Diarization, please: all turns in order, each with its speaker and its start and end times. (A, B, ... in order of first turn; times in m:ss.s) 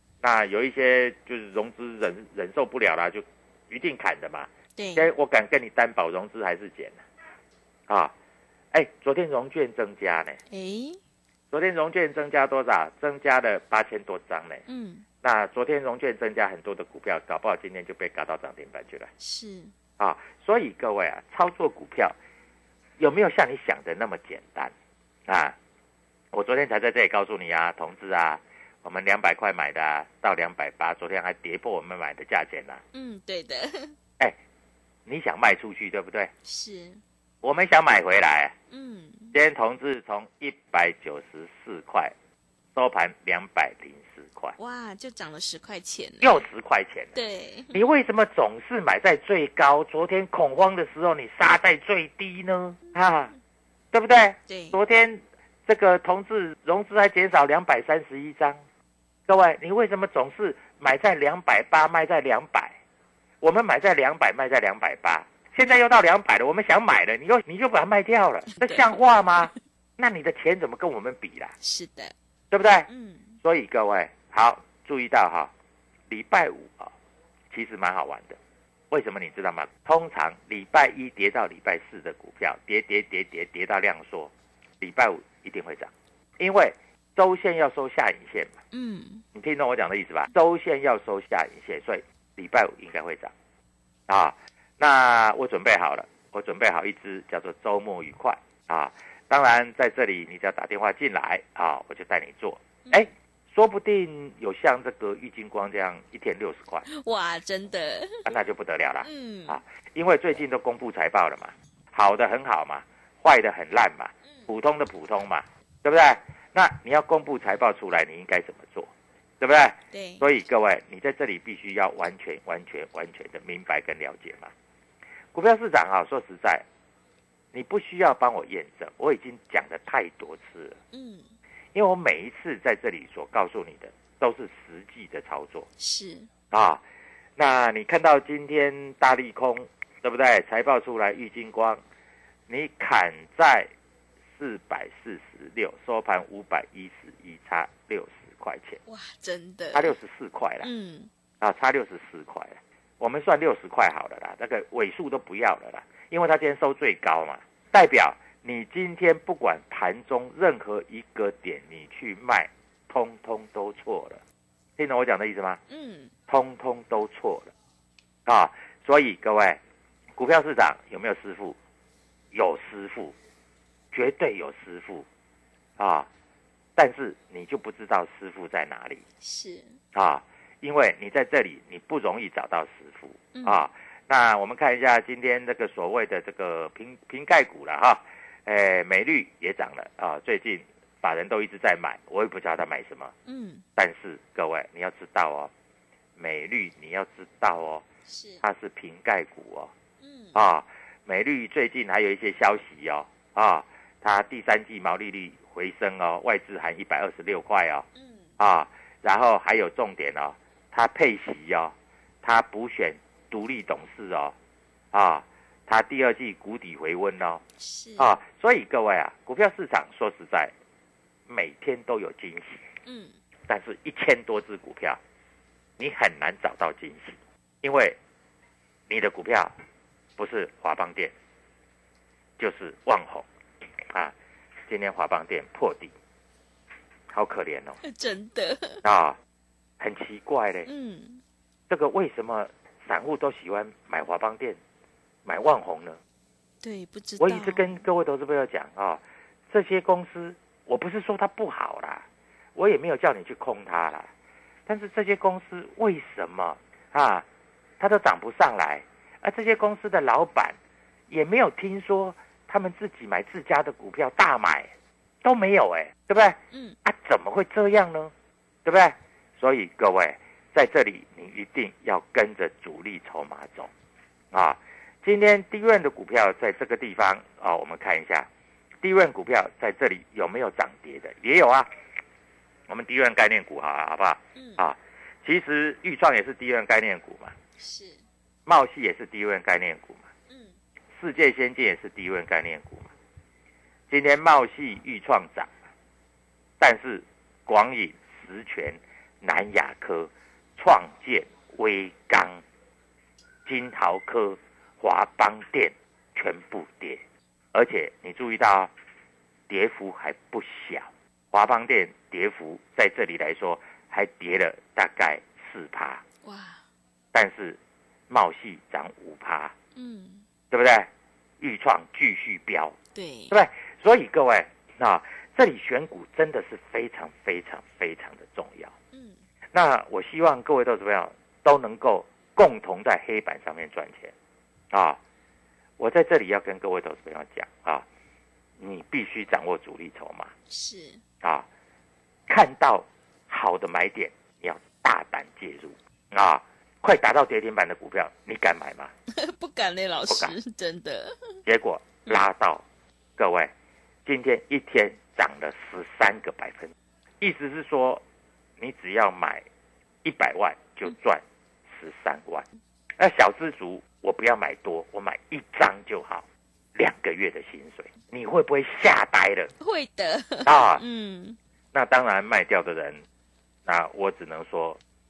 0:00.2-0:07.0 A
0:04.8-0:05.1 B
0:07.9-0:08.1 A
0:08.7-0:10.4 A
0:10.5-0:11.0 B
0:11.5-0:14.6 A
0:14.7-0:15.0 B
0:15.2-0:19.1 A
0:19.2-0:19.7 B
0:20.0-0:22.2 A
0:23.0-0:24.7 A
0:25.3-0:25.6 A
0:26.3-0:32.8 A
0:32.9-0:33.9 B
0:35.1-0:36.3 A
0:36.5-0:37.0 B
0:37.4-0:38.5 A
0:38.7-0:39.4 B
0:39.3-0:42.1 A
0:42.7-0:44.6 A
0:44.6-0:46.4 B
0:46.2-0:47.1 A
0:47.2-0:47.8 B
0:47.7-0:53.3 A
0:53.9-0:58.6 A
0:54.5-0:54.8 B
0:59.3-1:02.8 A
1:03.4-1:11.5 A
1:11.6-1:12.1 B
1:12.5-1:12.9 A
1:12.9-1:13.3 B
1:13.4-1:15.5 A
1:16.1-1:16.9 A
1:17.5-1:18.4 A
1:18.9-1:28.6 A
1:28.7-1:29.2 B
1:29.3-1:33.3 A
1:34.1-1:46.9 A
1:46.9-1:48.2 B
1:48.2-2:04.5 A
1:49.0-1:49.6 B
1:59.9-2:00.2 B
2:05.3-2:06.6 A
2:07.5-2:10.8 A
2:10.9-2:11.3 B
2:11.7-2:15.7 A
2:15.8-2:16.3 B
2:16.5-2:16.8 A
2:17.4-2:21.8 A
2:22.5-2:23.7 A
2:24.4-2:28.8 A
2:28.9-2:29.9 B
2:29.7-2:30.7 A
2:30.6-2:31.1 B
2:31.4-2:44.2 A
2:44.8-2:45.6 A
2:45.7-2:46.1 B
2:46.3-2:47.5 A
2:48.3-2:49.6 A
2:50.2-2:51.6 A
2:52.3-2:53.2 A
2:53.9-2:55.1 A
2:55.8-2:56.1 A
2:56.8-2:59.0 A
2:59.2-2:59.8 B
2:59.9-3:13.2 A
3:03.4-3:03.6 B
3:13.3-3:13.6 B
3:13.8-3:15.5 A
3:16.2-3:17.8 A
3:18.1-3:18.4 B
3:18.4-3:19.7 A
3:20.0-3:20.4 B
3:20.3-3:27.9 A
3:28.4-3:34.4 A
3:34.9-3:37.4 A
3:37.6-3:38.1 B
3:38.0-3:40.5 A
3:41.3-3:42.7 A
3:42.9-3:43.1 B
3:43.5-3:45.0 A
3:45.8-3:48.0 A
3:48.9-3:49.5 A
3:50.2-3:51.1 A
3:52.4-3:53.3 A
3:54.7-3:55.9 A
3:57.1-3:57.8 A
3:57.8-3:58.8 B
3:58.8-3:59.2 A
3:59.8-4:00.7 A
4:00.6-4:01.2 B
4:01.7-4:04.6 A
4:05.2-4:06.0 A
4:06.6-4:07.8 B
4:07.2-4:12.0 A
4:12.6-4:14.1 A
4:14.7-4:17.2 A
4:17.8-4:20.6 A
4:21.1-4:24.7 A
4:25.2-4:28.1 A
4:28.6-4:33.7 A
4:34.3-4:38.3 A
4:38.8-4:41.7 A
4:42.7-4:47.4 A
4:44.4-4:44.6 B
4:47.6-4:48.0 B
4:48.5-4:50.1 A
4:51.0-4:52.9 A
4:53.9-4:55.5 A
4:56.6-5:02.4 A
5:03.5-5:07.0 A
5:07.5-5:08.7 A
5:09.5-5:16.0 A
5:16.2-5:16.6 B
5:17.1-5:17.6 A
5:18.1-5:19.6 A
5:19.8-5:20.2 B
5:20.5-5:20.9 A
5:21.4-5:22.8 A
5:23.0-5:23.3 B
5:23.3-5:28.7 A
5:28.9-5:29.2 B
5:29.5-5:34.1 A
5:34.7-5:35.0 A
5:35.8-5:37.9 A
5:38.6-5:40.3 A
5:40.5-5:41.0 B
5:41.2-5:41.5 A
5:42.3-5:48.9 A
5:49.2-5:51.4 B
5:50.1-5:50.4 A
5:51.4-5:52.6 A
5:53.2-5:53.5 A
5:54.0-5:58.0 A
5:58.6-5:59.4 A
6:00.0-6:02.5 A
6:03.0-6:09.5 A
6:09.6-6:11.4 B
6:10.4-6:10.8 A
6:11.7-6:13.0 A
6:13.7-6:14.8 A